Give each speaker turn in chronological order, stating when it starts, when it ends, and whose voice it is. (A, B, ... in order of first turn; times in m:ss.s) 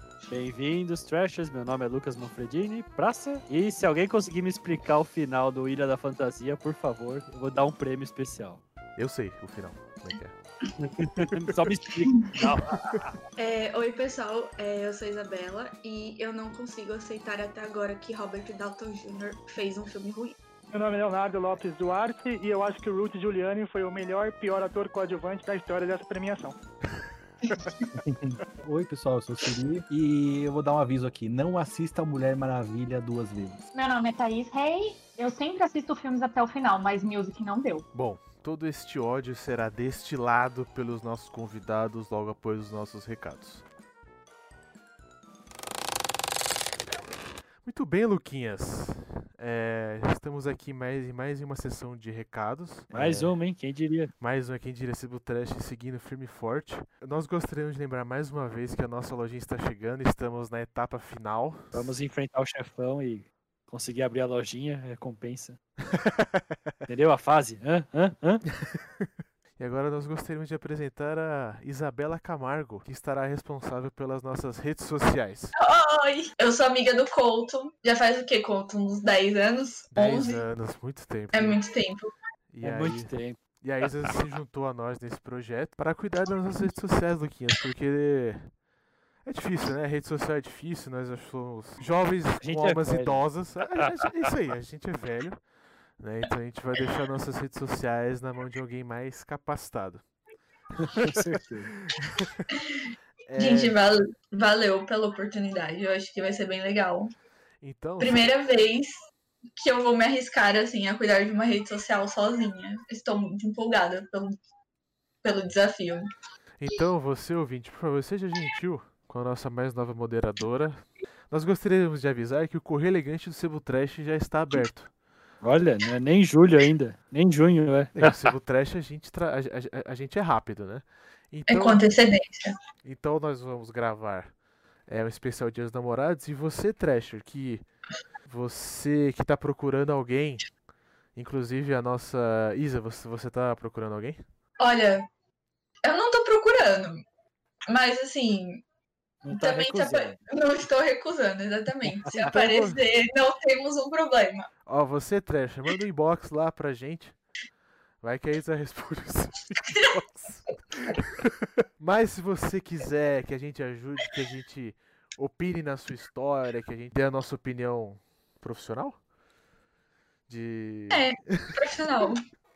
0:00.3-0:08.6 A
0:09.0-0:10.3 B
0:10.8-0:13.2 A
0:13.4-0:20.4 C
0:20.7-0:26.6 D
0:27.9-0:33.6 E
0:33.7-0:37.8 F
0:37.9-0:43.6 B
0:47.6-0:53.3 B
0:52.9-0:54.1 A
0:54.2-1:01.9 B
1:01.7-1:05.6 A
1:05.9-1:06.4 B
1:06.9-1:08.4 A
1:09.6-1:15.5 B
1:15.6-1:20.4 C
1:19.9-1:21.6 B
1:21.3-1:22.1 C
1:22.5-1:28.6 B
1:22.6-1:23.4 A
1:29.2-1:40.1 B
1:32.4-1:33.8 A
1:40.9-1:41.7 A
1:42.0-1:42.4 B
1:42.6-1:42.8 C
1:43.3-1:43.8 B
1:43.4-1:47.1 C
1:47.6-1:48.2 B
1:48.0-1:48.9 C
1:49.6-1:54.4 C
1:55.2-1:56.0 C
1:56.6-2:04.9 B
2:05.4-2:08.3 A
2:08.0-2:11.8 B
2:11.5-2:12.5 C
2:12.8-2:17.6 B
2:18.2-2:20.5 B
2:21.1-2:24.2 B
2:24.6-2:25.0 C
2:25.8-2:27.0 C
2:27.7-2:28.6 C
2:29.2-2:30.2 A
2:29.2-2:34.5 C
2:32.2-2:32.8 B
2:34.6-2:37.2 B
2:38.0-2:41.2 B
2:41.8-2:49.0 B
2:50.3-2:51.6 B
2:50.9-2:52.2 C